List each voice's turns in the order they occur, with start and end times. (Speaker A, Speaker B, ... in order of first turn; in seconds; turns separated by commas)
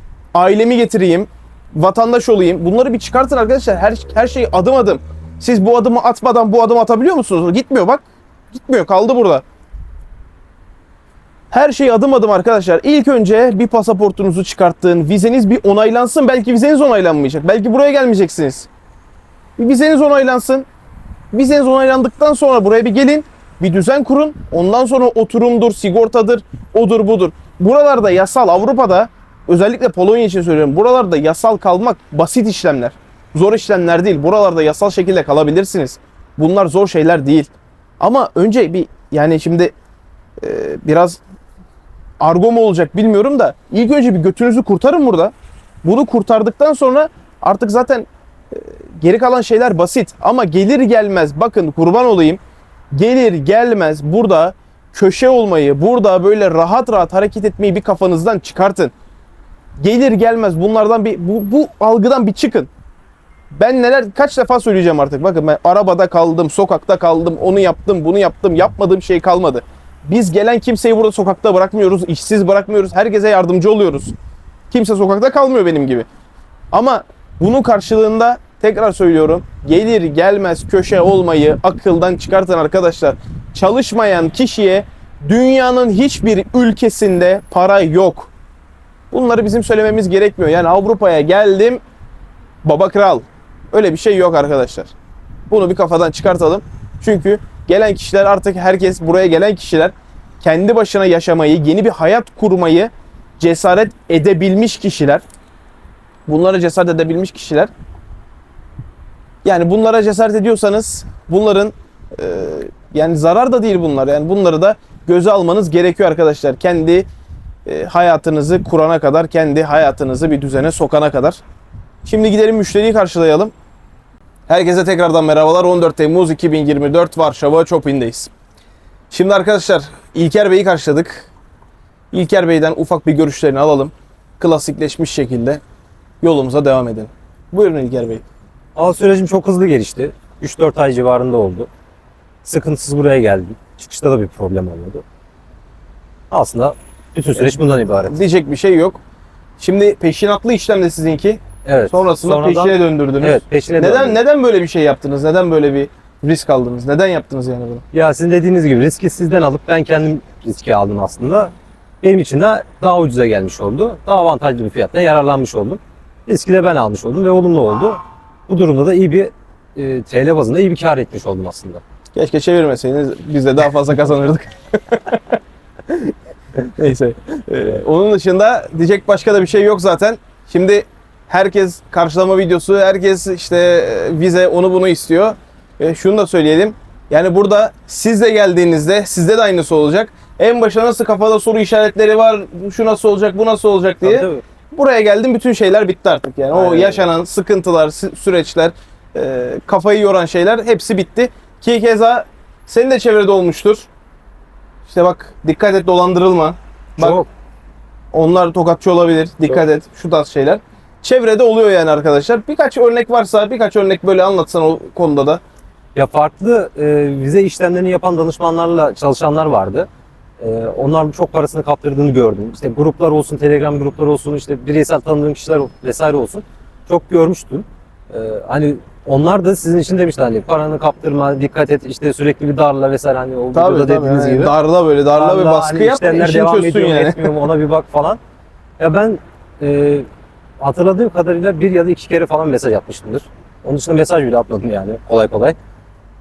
Speaker A: 0.3-9.4, Speaker A: 11.5-18.7, Speaker A: 19.6-20.7, Speaker A: 21.3-39.7, Speaker A: 40.4-41.2, Speaker A: 42.2-45.3, Speaker A: 45.8-52.4, Speaker A: 52.9-58.9, Speaker A: 59.8-62.7, Speaker A: 63.5-74.1, Speaker A: 74.7-76.0, Speaker A: 76.7-88.3, Speaker A: 89.1-91.8, Speaker A: 92.6-94.9, Speaker A: 95.5-105.2, Speaker A: 106.3-107.7, Speaker A: 109.4-117.0, Speaker A: 117.7-121.4, Speaker A: 122.0-123.5, Speaker A: 124.5-128.3, Speaker A: 129.1-131.3, Speaker A: 132.1-135.6, Speaker A: 136.2-138.2, Speaker B: 138.8-141.7, Speaker B: 142.4-145.0, Speaker B: 146.3-148.2, Speaker A: 148.1-149.0, Speaker A: 149.6-157.8, Speaker B: 151.6-154.2, Speaker B: 157.9-171.8, Speaker A: 172.2-175.2, Speaker A: 175.9-203.9, Speaker B: 194.0-194.4, Speaker B: 196.5-197.1, Speaker A: 204.9-207.2, Speaker B: 207.0-207.3, Speaker A: 208.1-215.4, Speaker B: 215.9-219.9, Speaker B: 220.4-234.5, Speaker A: 233.5-237.3, Speaker B: 235.1-238.2, Speaker B: 238.8-240.1, Speaker B: 240.6-245.6